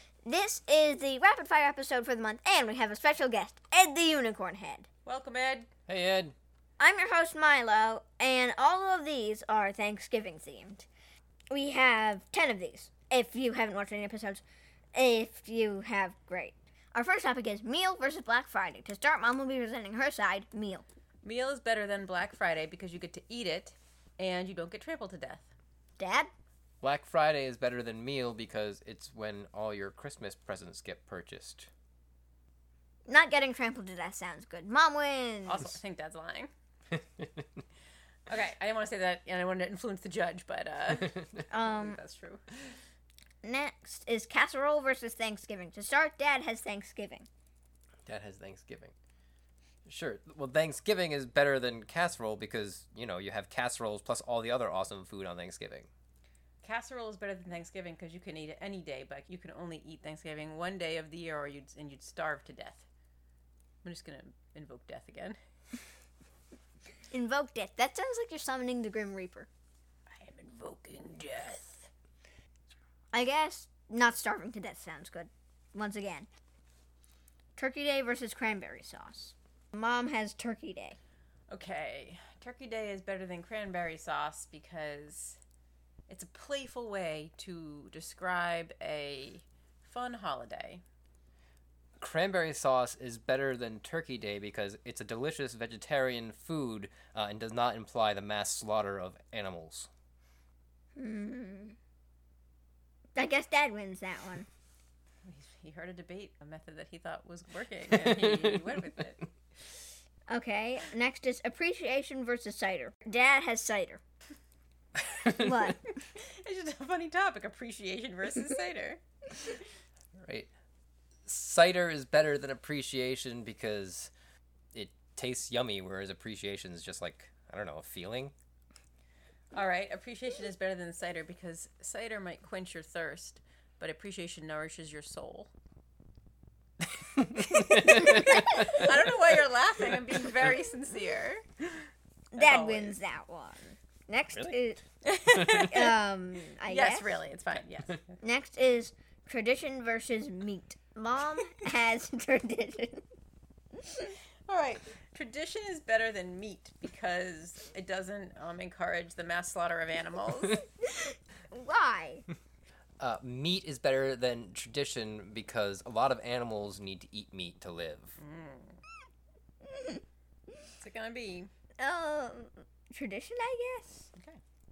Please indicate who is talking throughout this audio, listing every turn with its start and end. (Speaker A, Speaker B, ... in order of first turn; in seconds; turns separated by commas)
Speaker A: 0.2-4.9, Speaker B: 5.1-5.7, Speaker C: 5.9-6.3, Speaker A: 6.8-10.9, Speaker A: 11.5-14.4, Speaker A: 14.9-20.9, Speaker B: 21.2-25.5, Speaker A: 26.0-26.3, Speaker C: 26.8-31.7, Speaker A: 33.1-35.7, Speaker B: 35.5-36.5, Speaker B: 38.3-42.4, Speaker A: 41.5-42.0, Speaker A: 43.4-47.3, Speaker C: 48.1-48.9, Speaker C: 49.9-55.9, Speaker B: 56.6-62.9, Speaker B: 63.8-65.4, Speaker A: 67.1-69.5, Speaker B: 70.1-71.9, Speaker A: 73.1-76.3, Speaker A: 77.6-81.0, Speaker B: 81.5-85.4, Speaker B: 86.1-90.8, Speaker C: 92.0-99.9, Speaker A: 101.0-101.8, Speaker A: 103.2-104.5, Speaker B: 105.2-109.2, Speaker C: 107.9-108.8, Speaker A: 110.3-114.0, Speaker A: 115.3-115.8, Speaker B: 116.1-119.0, Speaker C: 120.2-120.5, Speaker C: 121.3-124.1, Speaker C: 124.7-128.3, Speaker B: 129.5-135.5, Speaker C: 137.2-138.9, Speaker B: 138.1-141.8, Speaker A: 142.3-144.8, Speaker B: 142.4-143.0, Speaker B: 145.0-146.0, Speaker A: 145.5-147.2, Speaker B: 146.6-148.2, Speaker A: 148.2-153.0, Speaker B: 154.5-160.6, Speaker A: 160.8-162.2, Speaker C: 163.0-168.2, Speaker B: 168.2-168.8, Speaker B: 170.8-171.5, Speaker A: 171.8-174.1